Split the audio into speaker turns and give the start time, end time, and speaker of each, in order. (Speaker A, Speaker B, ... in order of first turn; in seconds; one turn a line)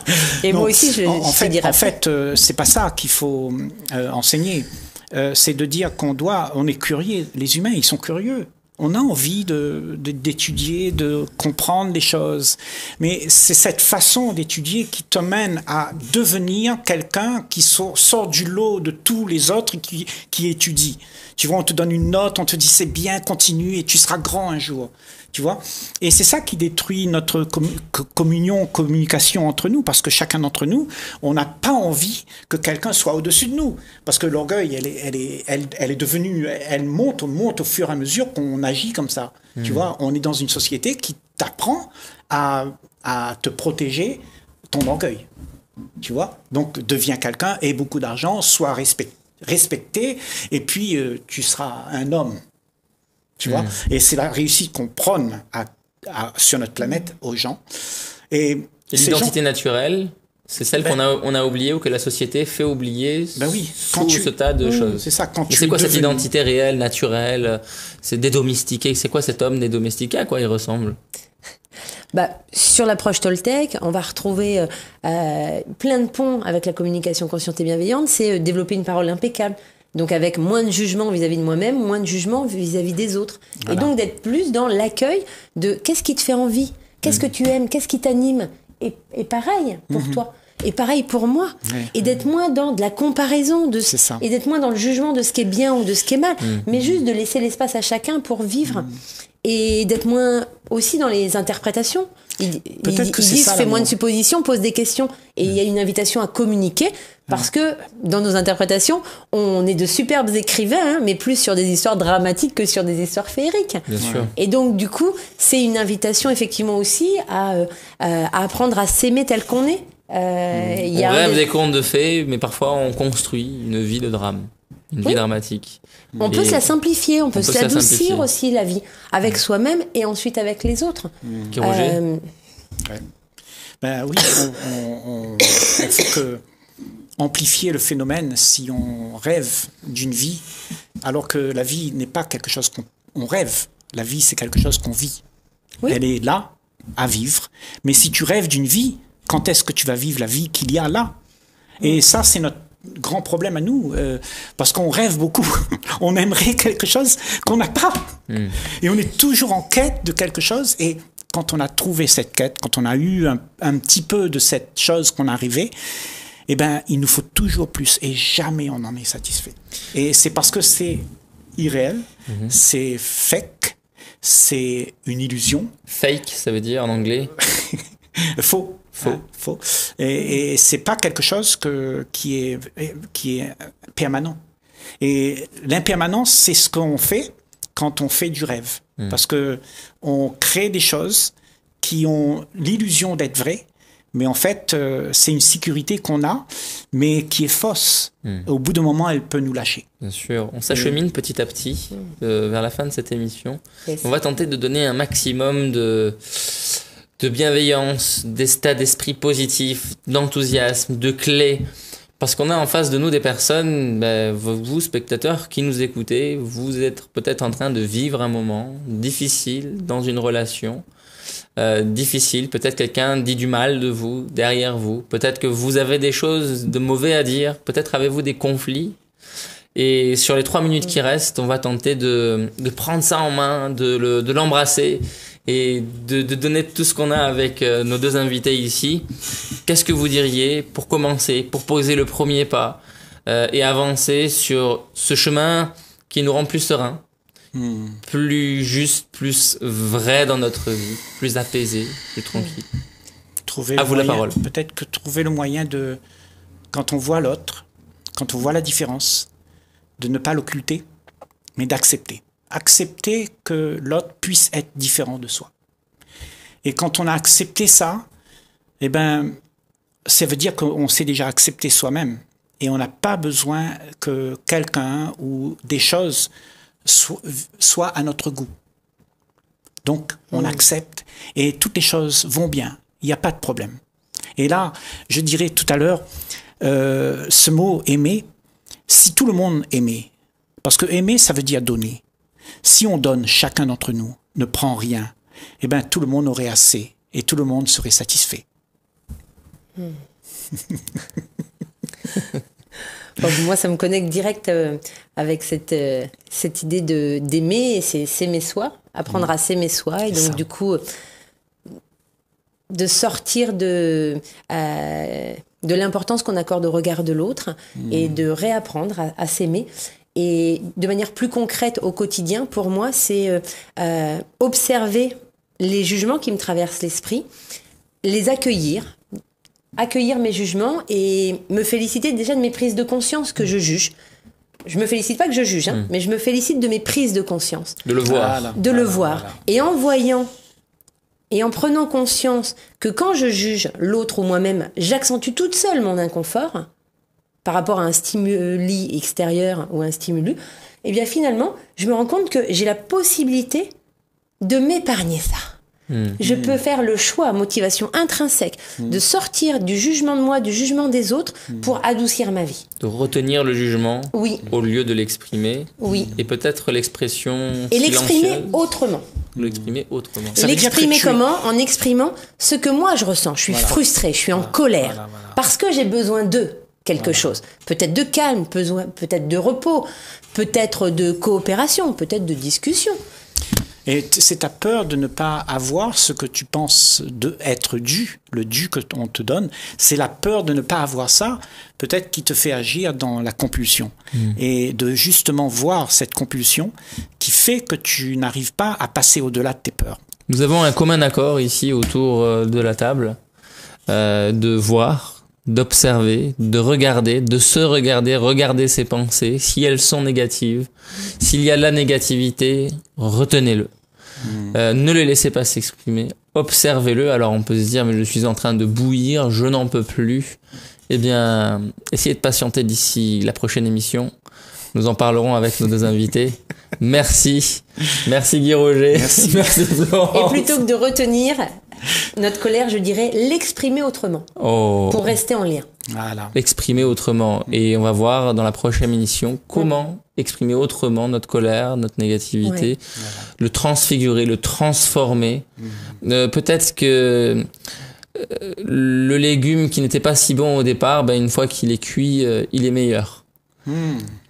Speaker A: 0.3-1.9
Speaker B: 0.5-45.3
Speaker C: 39.6-39.8
Speaker B: 46.0-52.4
Speaker B: 53.4-57.6
Speaker B: 58.3-59.4
Speaker C: 58.9-71.0
Speaker B: 63.3-64.3
Speaker A: 64.6-64.9
Speaker B: 64.9-66.2
Speaker A: 72.1-98.9
Speaker B: 83.6-83.9
Speaker B: 89.9-90.2
Speaker B: 91.7-91.9
Speaker B: 93.8-94.2
Speaker A: 99.4-121.5
Speaker B: 102.8-103.9
Speaker C: 113.9-114.3
Speaker B: 114.0-114.3
Speaker C: 120.9-126.7
Speaker A: 126.2-132.2
Speaker C: 127.3-128.3
Speaker B: 131.2-131.5
Speaker C: 131.5-132.0
Speaker B: 133.8-136.4
Speaker B: 137.2-140.4
Speaker B: 141.0-145.2
Speaker B: 145.8-151.1
Speaker B: 151.8-165.7
Speaker C: 158.3-158.6
Speaker B: 166.5-171.0
Speaker B: 171.6-175.7
Speaker C: 172.3-172.6
Speaker C: 175.9-177.3
Speaker B: 177.4-184.4
Speaker B: 185.0-199.8
Speaker C: 200.0-211.6
Speaker B: 200.7-201.0
Speaker C: 212.2-220.8
Speaker C: 221.6-228.9
Speaker C: 229.7-239.1
Speaker C: 239.7-247.0
Speaker B: 247.5-248.0
Speaker C: 248.1-252.7
Speaker B: 253.5-256.0
Speaker C: 253.8-254.4
Speaker B: 256.7-257.6
Speaker B: 258.2-259.3
Speaker B: 260.0-260.8
Speaker B: 261.6-265.5
Speaker B: 266.6-268.0
Speaker B: 268.8-269.4
Speaker B: 270.1-276.3
Speaker B: 276.8-278.5
Speaker B: 279.8-283.8
Speaker B: 284.4-286.0
Speaker B: 286.6-288.2
Speaker B: 288.9-290.1
Speaker B: 290.6-292.0
Speaker B: 292.6-298.4
Speaker A: 303.2-310.8
Speaker B: 310.1-310.4
Speaker A: 312.7-327.2
Speaker B: 317.8-318.2
Speaker A: 328.0-329.0
Speaker A: 329.8-333.9
Speaker A: 334.7-337.8
Speaker C: 337.8-338.5
Speaker B: 338.1-339.4
Speaker A: 338.5-340.3
Speaker A: 341.3-346.7
Speaker A: 347.4-353.7
Speaker A: 354.4-355.5
Speaker C: 355.9-356.2
Speaker A: 356.2-362.6
Speaker B: 356.2-356.6
Speaker C: 362.8-368.6
Speaker A: 364.1-364.5
Speaker A: 365.8-366.2
Speaker A: 367.7-369.0
Speaker C: 369.4-370.4
Speaker B: 370.3-371.2
Speaker A: 370.4-383.0
Speaker B: 373.5-373.8
Speaker B: 374.3-375.4
Speaker B: 377.0-377.3
Speaker B: 383.9-400.0
Speaker C: 400.3-403.2
Speaker C: 403.9-413.7
Speaker B: 414.2-414.6
Speaker C: 414.5-420.4
Speaker C: 420.9-424.1
Speaker C: 424.7-430.5
Speaker B: 428.9-429.7
Speaker A: 430.1-431.4
Speaker A: 432.0-434.3
Speaker C: 434.4-435.1
Speaker A: 434.9-435.7
Speaker B: 435.9-436.3
Speaker C: 436.3-442.8
Speaker A: 442.4-442.7
Speaker B: 443.0-443.3
Speaker C: 443.4-445.4
Speaker C: 446.0-447.4
Speaker C: 448.1-453.2
Speaker B: 453.6-454.1